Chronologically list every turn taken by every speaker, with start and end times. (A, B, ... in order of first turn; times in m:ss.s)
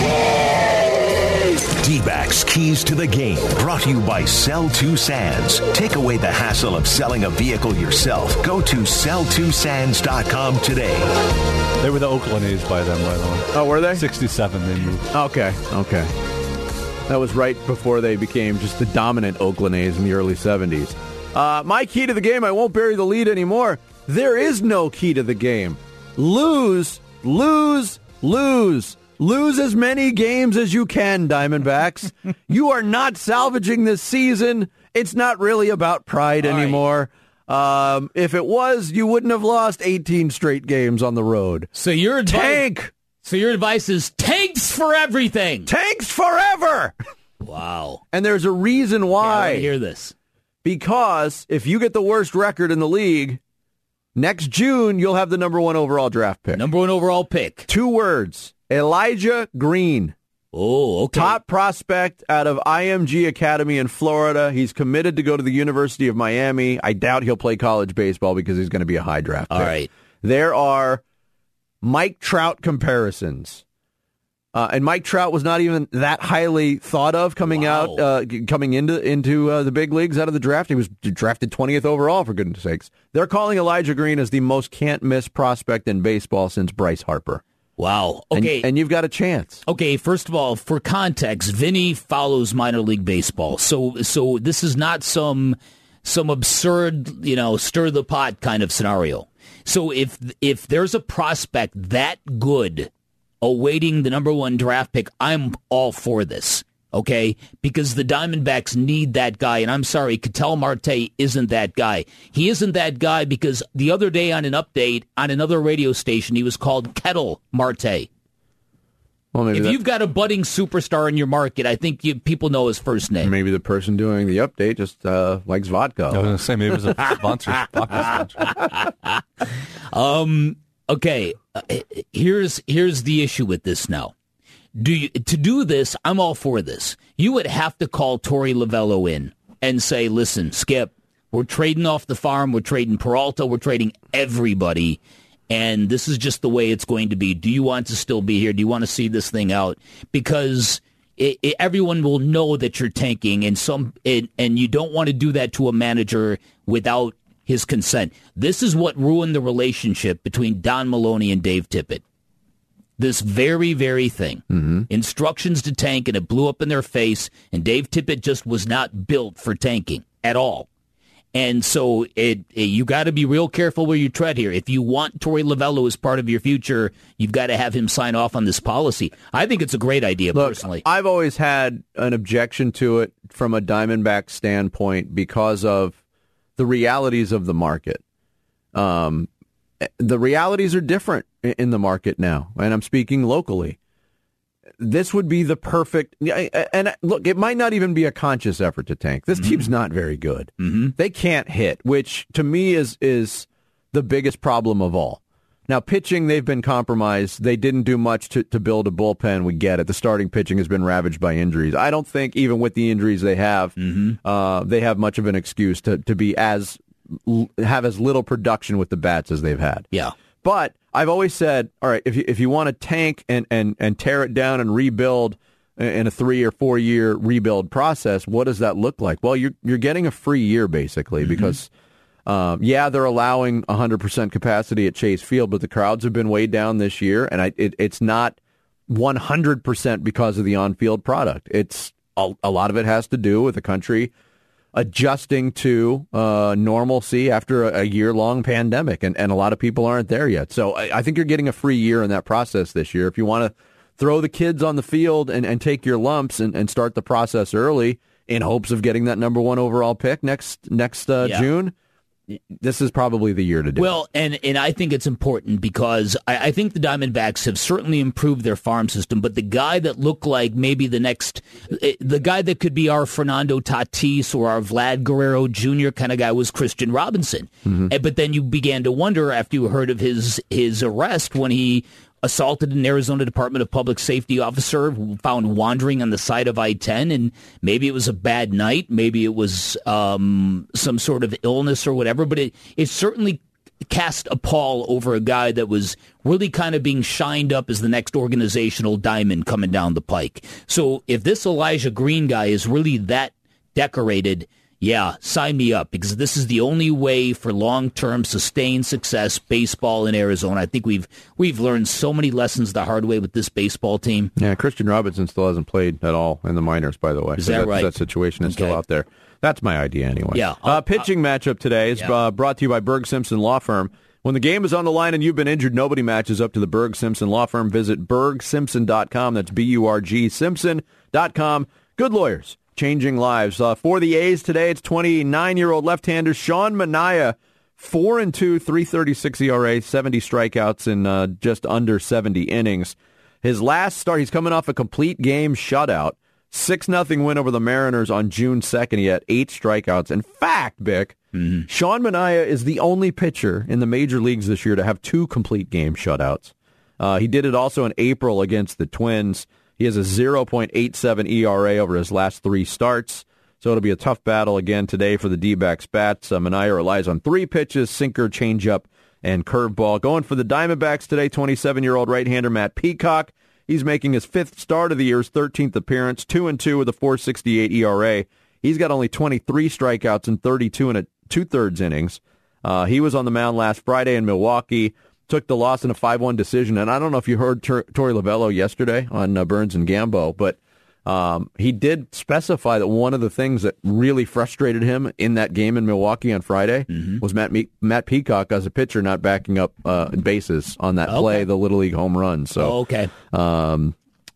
0:01.8-0:11.1 A
0:11.8-0:15.1 B
0:13.5-0:14.1 C
0:15.1-0:16.1 C
0:17.1-0:41.7 C
0:36.4-0:36.8 D
0:41.7-0:42.6 D
0:42.3-0:42.9 C
0:43.2-0:45.7 D
0:45.7-0:47.0 C
0:47.4-0:48.0 D
0:48.1-0:49.7 C
0:49.2-0:50.1 D
0:50.6-0:53.4 C
0:54.2-0:56.6 C
0:56.6-0:57.7 D
0:57.7-1:00.2 C
1:00.5-1:01.4 D
1:01.1-1:11.0 C
1:09.5-1:09.9 D
1:11.8-1:13.6 C
1:14.5-1:27.4 C
1:17.5-1:18.0 D
1:27.8-1:28.7 D
1:28.3-1:29.6 C
1:29.7-1:42.9 D
1:43.4-1:58.1 D
1:59.3-1:59.8 C
1:59.5-2:03.3 D
2:03.2-2:06.3 C
2:06.1-2:08.6 B
2:09.9-2:14.1 D
2:14.8-2:25.0 D
2:25.5-2:42.0 D
2:43.0-2:50.7 D
2:44.5-2:44.9 C
2:51.3-3:00.8 D
3:00.3-3:06.0 C
3:06.6-3:08.0 C
3:08.7-3:09.3 C
3:09.8-3:13.8 C
3:14.8-3:39.9 C
3:19.4-3:19.7 D
3:20.6-3:20.9 D
3:33.8-3:34.2 D
3:40.4-3:51.7 C
3:51.2-3:51.6 D
3:52.3-3:58.4 C
3:58.9-4:04.1 C
4:04.7-4:21.7 C
4:21.2-4:21.5 D
4:22.5-4:23.9 C
4:23.8-5:14.3 D
5:14.4-6:42.8 C
5:17.4-5:17.9 D
5:18.4-5:18.8 D
5:20.3-5:21.0 D
5:51.4-5:51.7 D
6:36.9-6:37.2 D
6:41.1-6:41.5 D
6:42.6-6:43.1 D
6:43.3-6:44.0 C